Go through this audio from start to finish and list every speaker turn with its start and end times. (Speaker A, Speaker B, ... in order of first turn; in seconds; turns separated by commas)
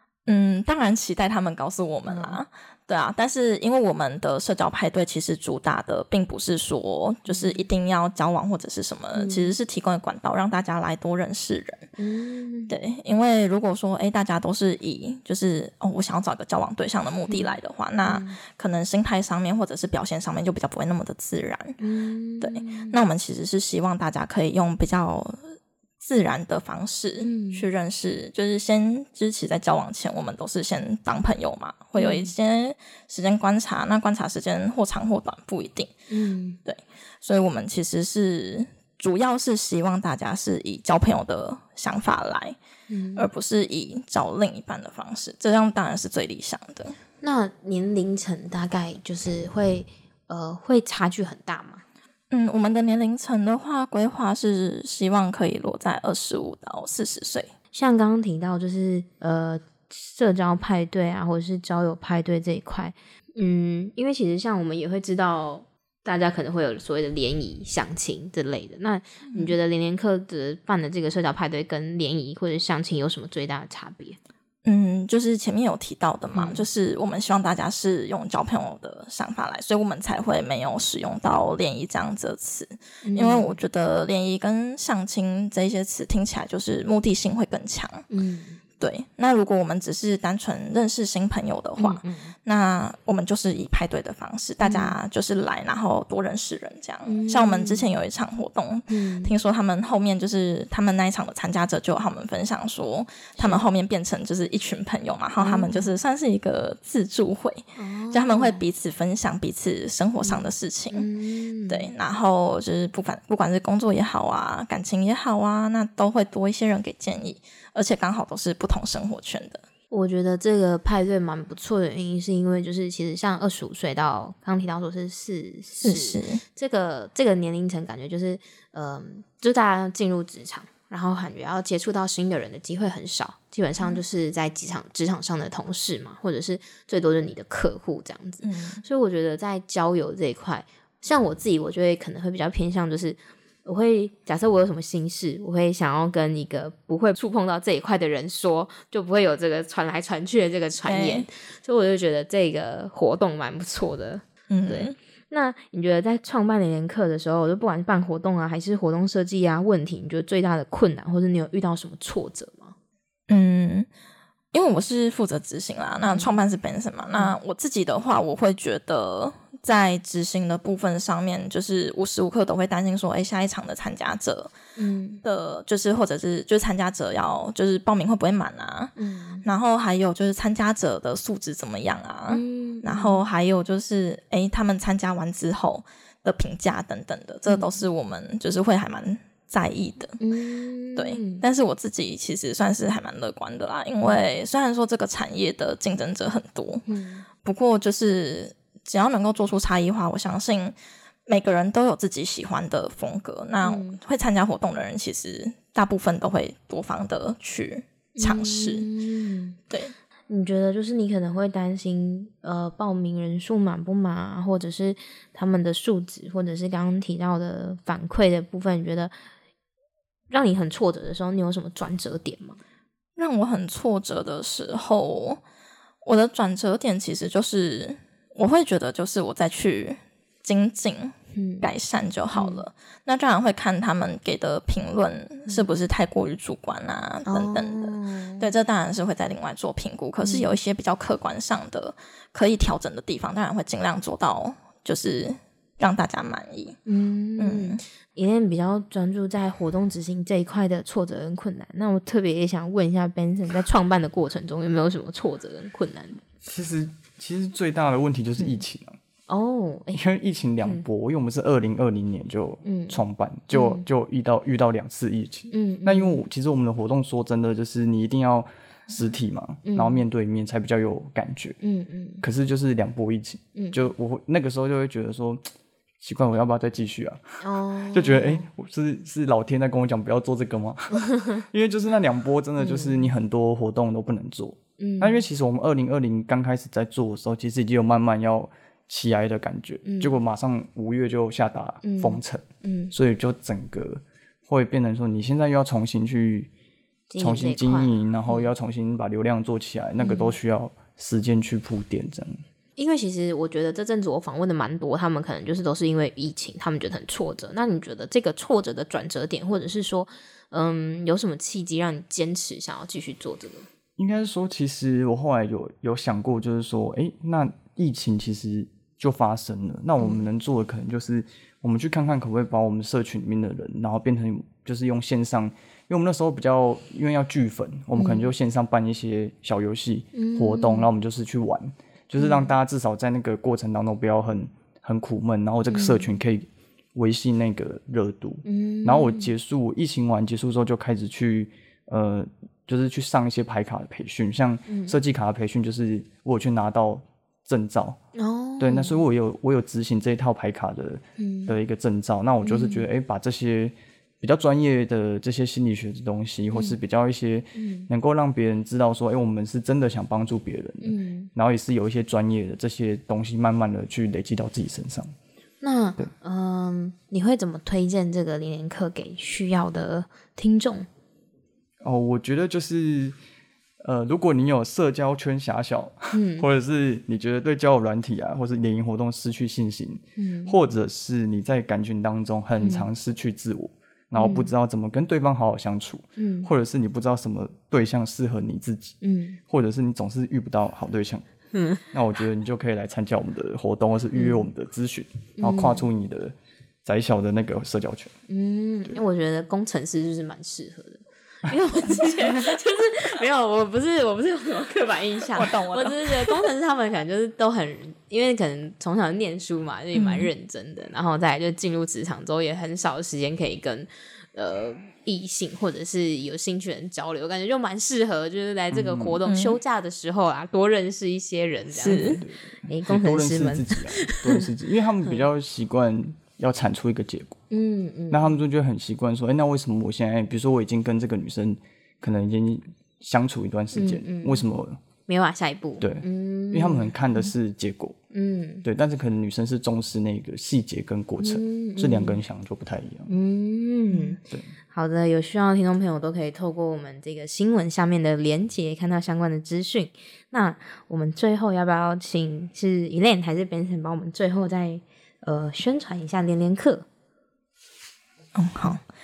Speaker A: 0.3-11.9, Speaker B: 2.1-2.4, Speaker B: 7.3-7.6, Speaker B: 9.2-9.5, Speaker B: 12.0-12.7, Speaker A: 12.7-21.8, Speaker B: 17.3-18.4, Speaker B: 21.8-22.9, Speaker A: 22.4-35.9, Speaker B: 27.2-27.6, Speaker B: 31.9-32.3, Speaker B: 36.1-36.6, Speaker A: 36.6-42.6, Speaker B: 42.9-43.3, Speaker A: 43.1-47.0, Speaker B: 47.2-51.8, Speaker A: 52.3-57.5, Speaker B: 57.7-74.2, Speaker A: 69.3-69.5, Speaker A: 74.6-88.0, Speaker B: 76.3-76.6, Speaker B: 83.0-83.5, Speaker B: 88.1-88.6, Speaker A: 88.8-111.1, Speaker B: 91.8-92.3, Speaker B: 94.6-95.0, Speaker B: 97.0-97.8, Speaker B: 98.9-99.3, Speaker B: 103.4-103.6, Speaker B: 105.4-105.9, Speaker B: 107.8-108.6, Speaker B: 110.2-111.9, Speaker A: 111.7-119.6, Speaker B: 119.9-162.7, Speaker A: 125.8-126.4, Speaker A: 138.4-138.8, Speaker A: 150.8-151.3, Speaker A: 154.5-154.9, Speaker A: 163.3-163.9, Speaker A: 164.5-174.5, Speaker B: 166.0-166.3, Speaker B: 174.8-175.2, Speaker A: 175.2-190.2, Speaker B: 179.0-179.4, Speaker B: 182.3-183.2, Speaker B: 187.5-187.8, Speaker B: 190.2-191.4, Speaker A: 190.9-196.8, Speaker B: 196.9-197.2, Speaker A: 197.4-200.8, Speaker A: 201.3-208.9, Speaker B: 203.6-204.0, Speaker B: 208.2-209.6, Speaker B: 210.3-219.1, Speaker B: 220.3-222.6, Speaker A: 223.2-225.4, Speaker A: 226.0-246.8, Speaker B: 231.3-231.7, Speaker B: 232.3-232.6, Speaker B: 237.2-238.5, Speaker B: 240.2-240.5, Speaker B: 246.8-256.2, Speaker A: 247.4-247.8, Speaker C: 256.4-259.0, Speaker B: 259.3-260.0, Speaker C: 259.9-271.6, Speaker B: 262.6-263.8, Speaker B: 265.5-266.2, Speaker B: 269.6-270.0, Speaker B: 271.6-272.2, Speaker C: 272.2-275.5, Speaker B: 273.6-273.9, Speaker C: 276.0-296.5, Speaker B: 277.4-278.5, Speaker B: 281.1-281.4, Speaker B: 282.6-283.1, Speaker B: 284.8-285.2, Speaker B: 289.8-290.2, Speaker B: 291.8-292.9, Speaker B: 297.1-298.5, Speaker C: 297.2-302.4, Speaker B: 300.0-300.3, Speaker B: 302.8-313.6, Speaker C: 314.0-348.0, Speaker B: 327.9-328.3, Speaker B: 330.1-330.9, Speaker B: 332.2-332.5, Speaker B: 335.7-336.1, Speaker B: 338.4-339.3, Speaker B: 344.7-344.9, Speaker B: 348.1-349.0, Speaker C: 348.6-365.1, Speaker B: 351.2-351.5, Speaker B: 352.4-352.9, Speaker B: 356.5-356.8, Speaker B: 357.5-357.9, Speaker B: 360.8-361.3, Speaker B: 365.6-370.9, Speaker C: 371.8-373.1, Speaker C: 373.8-388.9, Speaker B: 376.1-376.5, Speaker B: 380.2-380.6, Speaker B: 382.6-382.9, Speaker B: 384.1-384.5, Speaker B: 386.2-386.5, Speaker B: 389.0-389.4, Speaker C: 389.5-391.2, Speaker B: 391.5-391.8, Speaker C: 391.9-398.1, Speaker B: 394.1-394.5, Speaker B: 395.4-395.9, Speaker B: 398.3-424.5, Speaker A: 405.3-406.5, Speaker A: 409.9-410.3, Speaker C: 418.7-419.2, Speaker A: 419.2-419.6, Speaker A: 421.7-422.2, Speaker C: 421.9-427.4, Speaker B: 427.5-428.4, Speaker C: 428.1-434.8, Speaker B: 433.7-434.4, Speaker B: 435.1-437.3, Speaker C: 435.8-438.0, Speaker B: 438.1-438.6, Speaker C: 438.6-443.1, Speaker B: 441.2-442.2, Speaker B: 443.1-444.2, Speaker C: 443.9-444.5, Speaker B: 444.7-456.9, Speaker A: 458.3-458.8